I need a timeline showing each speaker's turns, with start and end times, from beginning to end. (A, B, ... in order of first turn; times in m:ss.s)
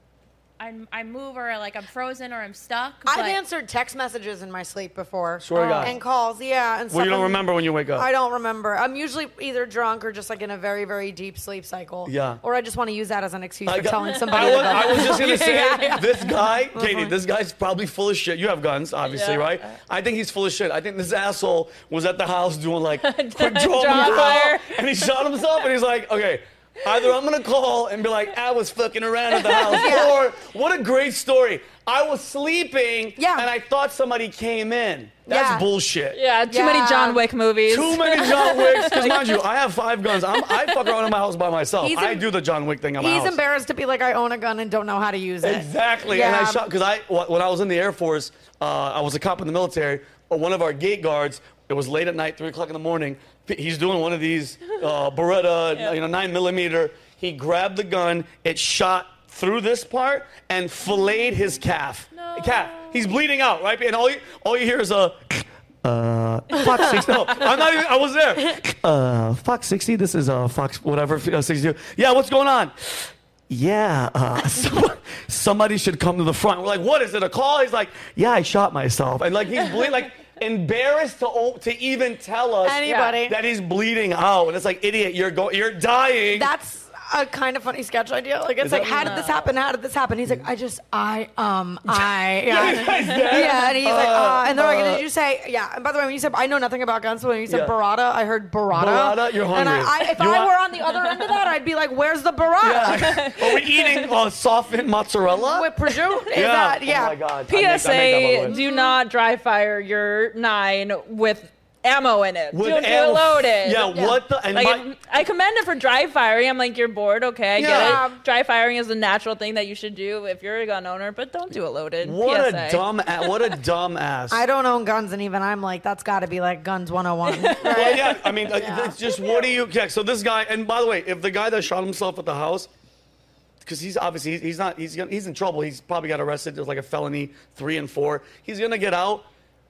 0:00.6-0:03.4 A
0:03.1-0:17.1 B
0:05.4-0:06.0 C
0:05.6-0:06.0 A
0:06.9-0:08.1 C
0:12.1-0:12.4 C
0:13.7-0:36.2 C
0:14.3-0:15.1 D
0:19.1-0:19.6 D
0:23.0-0:24.7 D
0:23.9-0:24.3 B
0:29.4-0:30.0 D
0:29.6-0:30.2 B
0:33.2-0:33.5 B
0:35.3-0:35.7 B
0:36.1-0:39.4 D
0:36.5-0:37.2 B
0:37.7-0:43.4 C
0:40.3-0:41.0 D
0:41.8-0:42.3 B
0:43.0-0:46.6 B
0:45.4-1:26.5 C
1:02.2-1:02.9 A
1:22.6-1:23.4 B
1:22.9-1:23.1 D
1:26.3-1:43.3 B
1:28.6-1:29.2 C
1:29.0-1:29.3 D
1:31.9-1:35.0 C
1:38.7-1:40.5 C
1:42.6-1:45.7 C
1:42.9-1:44.1 D
1:45.5-1:47.2 B
1:46.3-1:48.6 C
1:47.5-2:03.5 D
1:48.5-1:49.0 B
1:52.5-1:54.9 C
1:57.6-1:58.0 C
1:57.6-1:58.2 B
2:02.0-2:04.4 C
2:04.3-2:09.1 B
2:07.3-2:08.2 D
2:07.6-2:12.7 C
2:13.6-2:19.2 C